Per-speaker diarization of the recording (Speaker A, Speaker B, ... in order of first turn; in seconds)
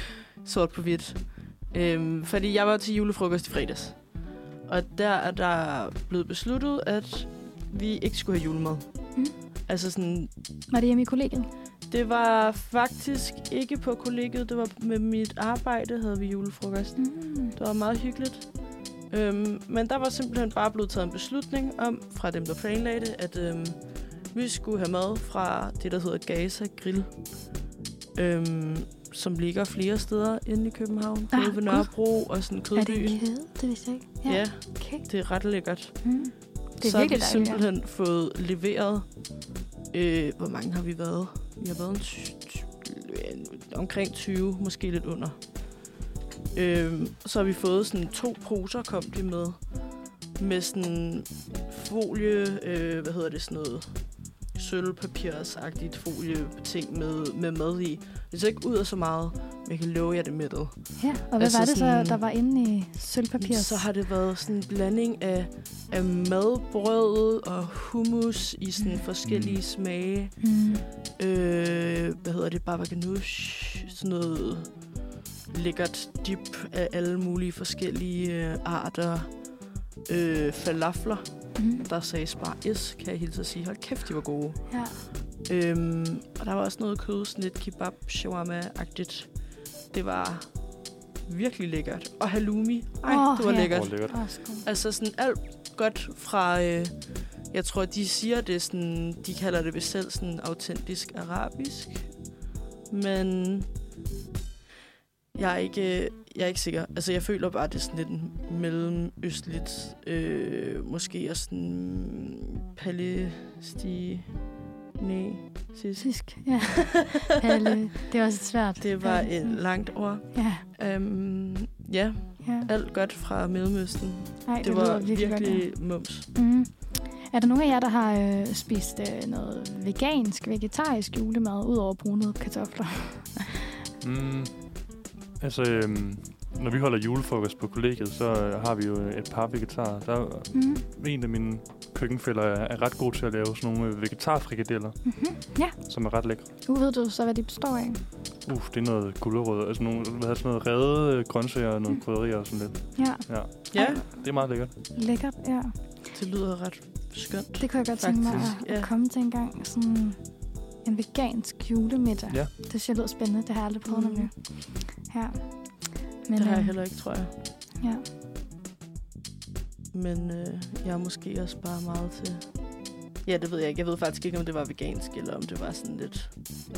Speaker A: 0.4-10.4, 11.9-27.6, 28.1-33.4, 34.2-45.9, 46.5-62.3, 63.4-102.3, 102.9-103.7, 105.3-117.2, 118.8-126.3, 153.7-154.0, 156.1-158.9, 163.9-164.3, 166.4-167.3, 169.9-176.4
Speaker B: 10.7-11.5, 17.0-17.6, 31.3-37.6, 61.0-63.9, 70.4-70.8, 81.5-81.9, 84.7-85.0, 93.1-94.7, 116.0-120.6, 122.4-122.7, 124.4-133.6, 140.5-140.9, 145.1-148.0, 152.9-155.9, 157.6-167.2, 167.8-168.1
Speaker C: 69.3-69.6, 93.7-94.2, 134.0-146.5, 148.4-154.7, 158.3-158.5